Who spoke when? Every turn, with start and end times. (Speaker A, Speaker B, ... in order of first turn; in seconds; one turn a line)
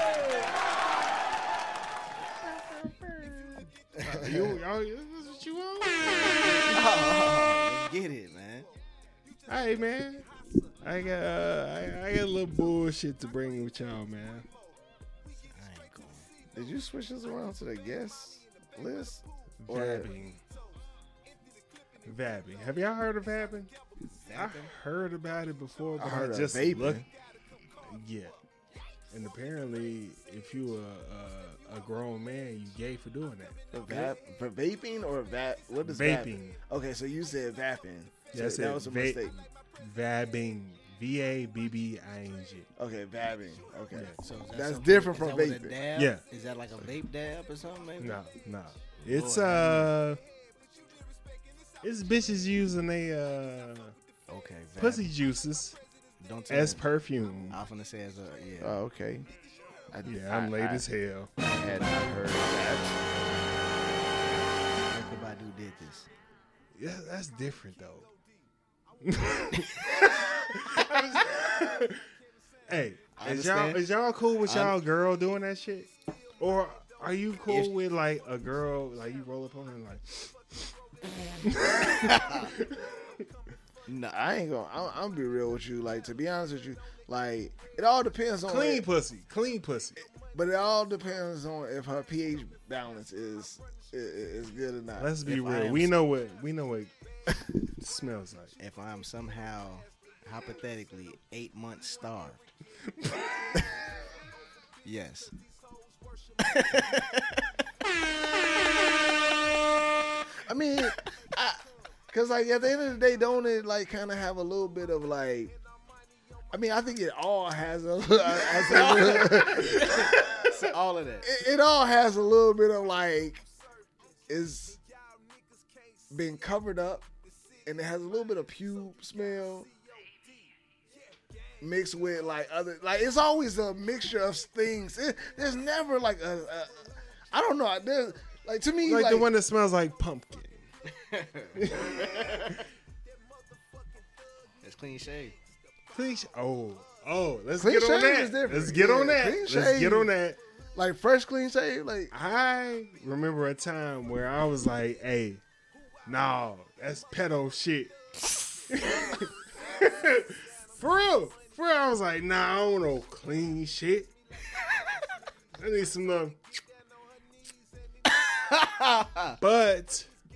Speaker A: 3.0-3.5
Speaker B: 4.0-4.6
Speaker A: 4.0-6.8
Speaker C: 6.7-8.7
Speaker A: 9.5-10.3
Speaker A: 10.8-14.5
Speaker C: 15.5-16.3
Speaker B: 16.5-20.1
Speaker A: 19.6-20.4
Speaker A: 22.1-23.7
Speaker C: 24.3-24.7
Speaker A: 24.4-27.1
Speaker B: 26.0-27.1
Speaker A: 27.8-28.4
Speaker A: 29.1-33.6
Speaker B: 33.7-39.4
Speaker A: 35.8-36.6
Speaker A: 38.3-42.7
Speaker B: 42.8-45.8
Speaker A: 43.9-44.2
Speaker C: 44.2-48.2
Speaker A: 46.0-46.2
Speaker A: 48.0-50.2
Speaker C: 49.0-50.0
Speaker A: 51.8-54.0
Speaker C: 54.3-55.1
Speaker A: 54.8-55.8
Speaker C: 56.2-56.8
Speaker A: 56.5-57.6
Speaker C: 57.5-58.8
Speaker B: 58.6-59.3
Speaker B: 59.9-60.8
Speaker A: 60.0-61.3
Speaker C: 60.4-60.8
Speaker B: 61.4-63.3
Speaker C: 61.5-62.4
Speaker C: 64.9-66.1
Speaker A: 66.8-68.1
Speaker A: 69.0-72.0
Speaker A: 72.7-80.7
Speaker C: 73.2-73.8
Speaker C: 74.5-74.8
Speaker A: 81.4-82.9
Speaker C: 82.0-82.5
Speaker B: 83.9-88.8
Speaker A: 88.5-90.0
Speaker B: 90.3-95.1
Speaker A: 95.0-96.9
Speaker C: 95.2-96.0
Speaker A: 97.6-98.5
Speaker C: 98.6-102.5
Speaker A: 103.0-103.4
Speaker C: 104.8-105.3
Speaker C: 106.4-107.4
Speaker B: 110.4-111.6
Speaker B: 112.1-115.5
Speaker B: 116.5-120.3
Speaker C: 118.7-121.3
Speaker B: 121.2-123.5
Speaker B: 124.3-124.8
Speaker B: 126.1-127.1
Speaker B: 127.7-129.7
Speaker B: 131.6-139.3
Speaker A: 138.8-140.7
Speaker C: 140.9-142.6
Speaker A: 141.6-142.6
Speaker C: 144.6-145.4
Speaker A: 145.9-150.4
Speaker B: 147.6-150.1
Speaker B: 150.8-152.1
Speaker A: 152.1-155.4
Speaker A: 156.1-157.9
Speaker A: 158.7-164.1
Speaker A: 165.6-166.4
Speaker C: 168.1-169.4
Speaker A: 169.4-170.1